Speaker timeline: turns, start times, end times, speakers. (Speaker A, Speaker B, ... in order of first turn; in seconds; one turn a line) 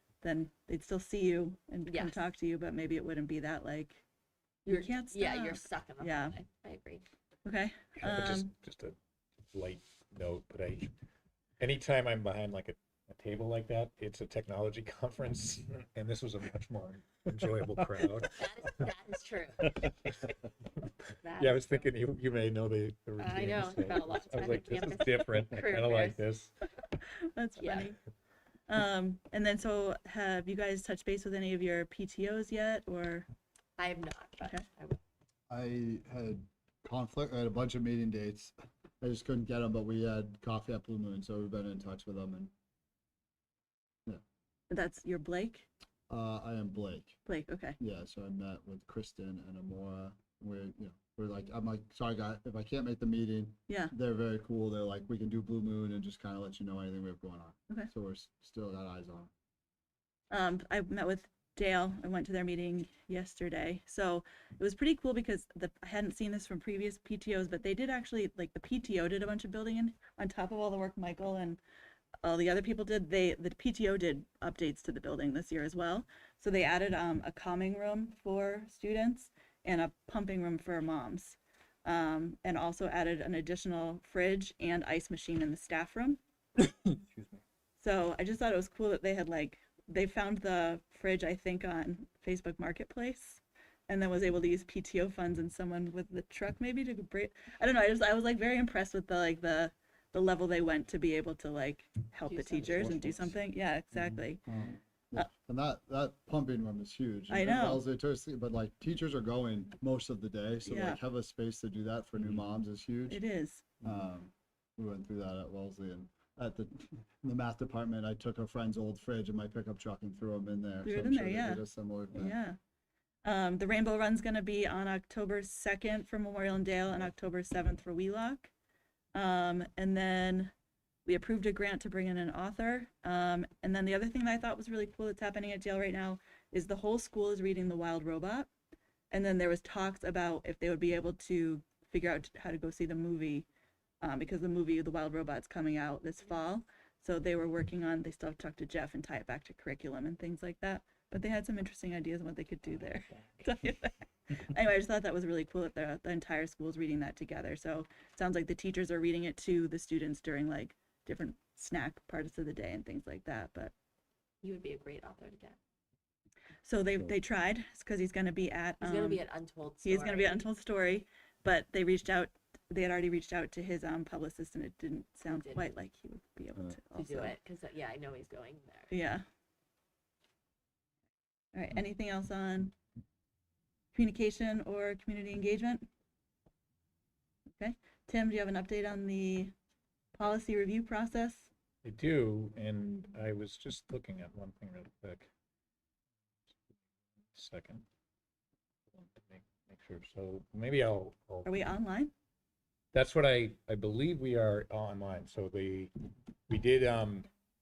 Speaker A: 0.2-4.0
Speaker B: 1.9-2.4
Speaker B: 4.7-7.0
Speaker A: 4.7-6.4
Speaker A: 7.5-8.5
Speaker C: 8.0-9.0
Speaker C: 9.5-10.9
Speaker C: 11.6-18.9
Speaker B: 18.4-19.8
Speaker C: 19.8-26.5
Speaker B: 21.2-21.9
Speaker B: 23.2-26.3
Speaker A: 27.2-28.0
Speaker B: 27.6-27.9
Speaker A: 28.7-33.3
Speaker B: 33.8-35.0
Speaker A: 34.4-34.6
Speaker D: 35.5-42.5
Speaker A: 44.7-45.7
Speaker D: 46.1-47.2
Speaker A: 47.3-47.8
Speaker D: 47.8-59.3
Speaker A: 53.7-53.9
Speaker A: 60.3-71.6
Speaker A: 72.2-86.2
Speaker A: 87.8-104.4
Speaker B: 102.3-103.0
Speaker D: 102.5-103.4
Speaker D: 103.9-113.2
Speaker A: 107.3-107.9
Speaker A: 110.7-111.0
Speaker A: 113.1-113.6
Speaker D: 113.8-122.4
Speaker A: 120.8-122.6
Speaker A: 123.2-128.5
Speaker A: 129.1-130.5
Speaker A: 131.1-138.5
Speaker A: 139.1-143.5
Speaker A: 144.0-163.7
Speaker B: 164.4-165.6
Speaker A: 166.6-169.2
Speaker B: 168.8-170.5
Speaker A: 169.8-177.4
Speaker B: 175.3-175.7
Speaker B: 176.9-178.9
Speaker A: 178.9-179.2
Speaker A: 181.5-182.7
Speaker A: 183.9-185.9
Speaker A: 187.6-189.5
Speaker A: 190.2-191.5
Speaker C: 191.8-195.3
Speaker C: 197.3-197.9
Speaker C: 198.9-201.8
Speaker A: 201.4-202.1
Speaker C: 202.9-205.9
Speaker C: 206.5-207.3